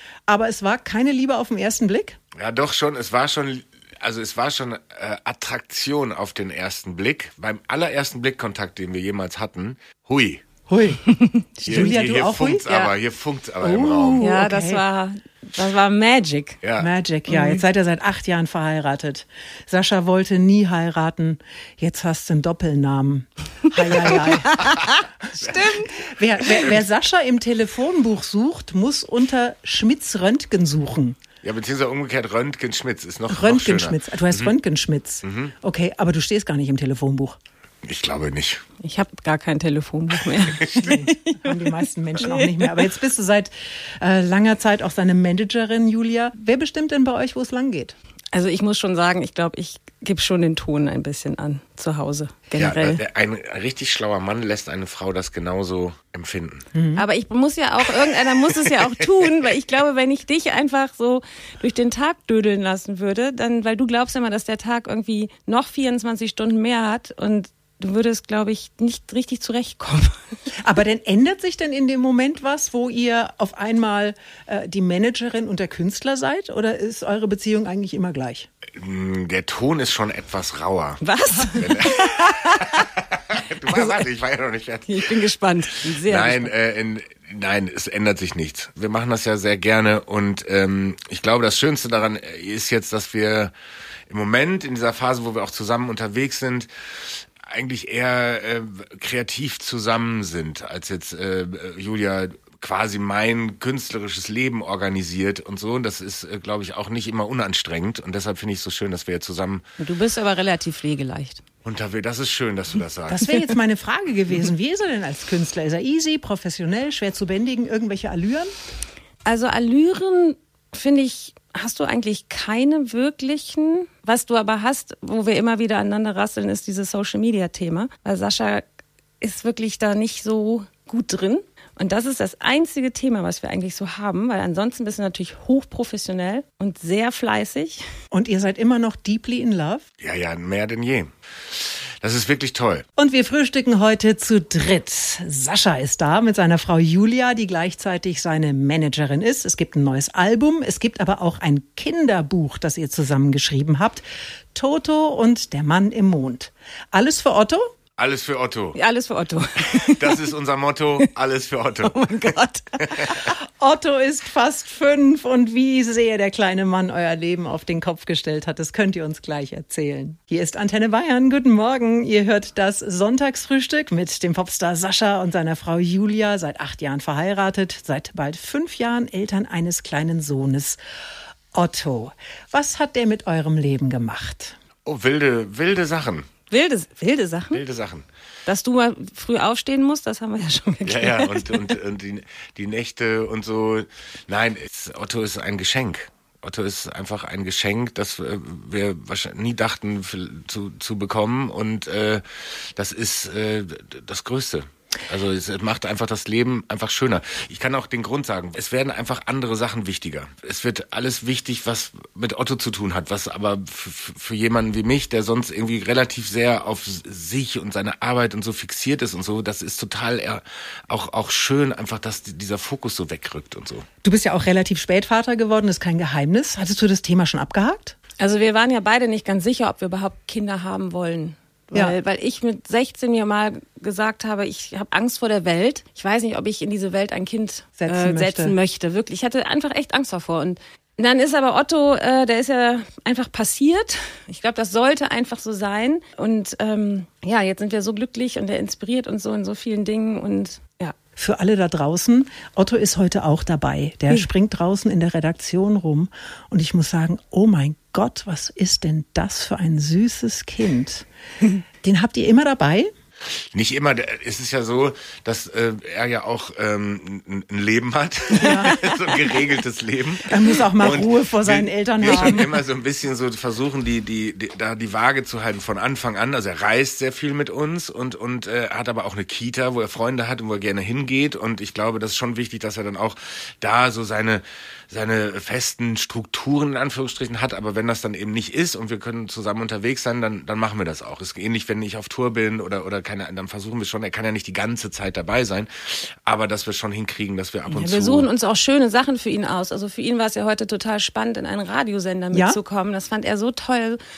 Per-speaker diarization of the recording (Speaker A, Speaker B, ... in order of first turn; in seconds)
Speaker A: 0.3-2.2, 10.7-11.0, 11.6-12.6, 13.6-14.8, 16.8-24.7, 25.5-31.2, 33.3-37.4, 40.7-47.9, 56.7-57.0, 70.6-78.5, 113.1-118.5, 138.1-139.8, 143.0-154.0, 154.5-157.7, 163.3-180.8, 181.5-184.6, 224.0-228.0, 237.8-238.5, 251.2-261.0, 261.8-262.9, 268.4-268.9, 270.3-272.6, 302.3-302.6
Speaker B: 2.3-10.4, 11.6-14.2, 16.6-16.9, 24.2-24.6, 31.4-34.5, 35.2-35.5, 37.8-38.6, 40.3-41.0, 52.6-56.7, 78.8-81.0, 81.5-85.2, 85.9-93.5, 94.1-109.7, 111.6-113.3, 140.0-142.8, 158.0-158.8, 159.7-163.2, 184.8-186.3, 187.5-188.0, 190.8-223.8, 263.5-298.3
Speaker C: 11.1-11.8, 12.7-12.9, 14.2-16.6, 17.3-17.6, 24.3-25.9, 38.8-42.8, 48.3-53.0, 57.0-70.2, 81.0-82.8, 83.7-84.0, 84.9-86.5, 109.8-111.4, 119.2-128.7, 129.2-137.8, 158.7-160.2, 161.8-163.3, 186.5-187.6, 188.5-191.7, 228.2-250.9, 268.5-268.9, 297.7-304.0